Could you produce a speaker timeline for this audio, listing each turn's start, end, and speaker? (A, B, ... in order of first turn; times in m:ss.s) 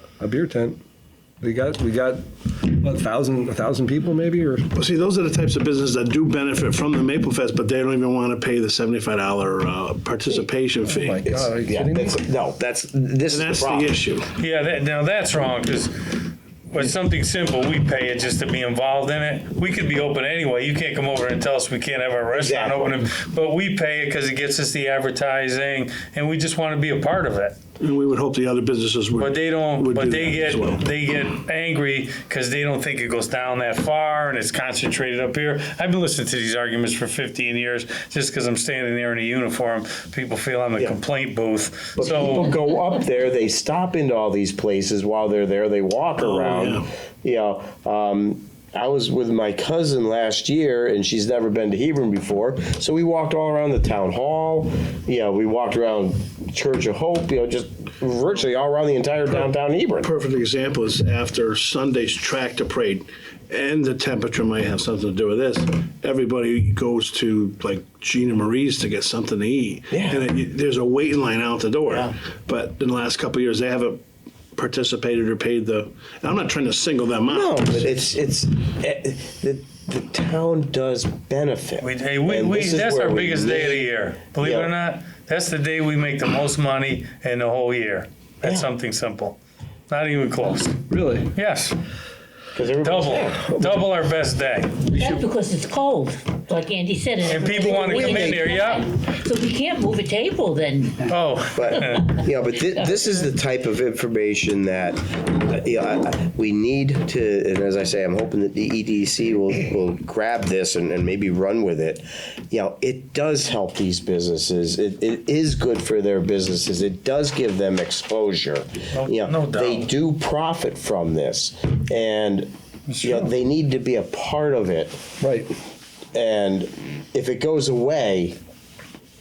0:00.2-0:00.8 A
0:01.4-0:04.7 A
0:04.7-0:11.4 B
0:10.9-0:12.2 A
0:11.3-0:13.9 C
0:13.3-0:14.3 B
0:14.4-0:27.6 D
0:22.3-0:23.1 C
0:27.8-0:30.8 B
0:29.2-0:42.5 D
0:42.0-1:00.1 C
0:46.2-0:46.9 B
1:00.0-1:14.0 B
1:09.9-1:10.2 C
1:14.6-1:18.0 B
1:17.3-1:24.7 C
1:21.8-1:31.8 D
1:28.4-1:28.7 C
1:30.9-1:31.3 A
1:32.5-1:33.5 C
1:32.8-1:34.9 D
1:34.9-1:41.1 E
1:37.2-1:38.9 D
1:37.6-1:38.4 C
1:41.1-1:42.2 D
1:41.5-2:02.5 C
1:58.9-1:59.9 D
2:02.9-2:03.3 D
2:03.0-2:05.0 C
2:05.2-2:05.5 A
2:06.1-2:08.4 C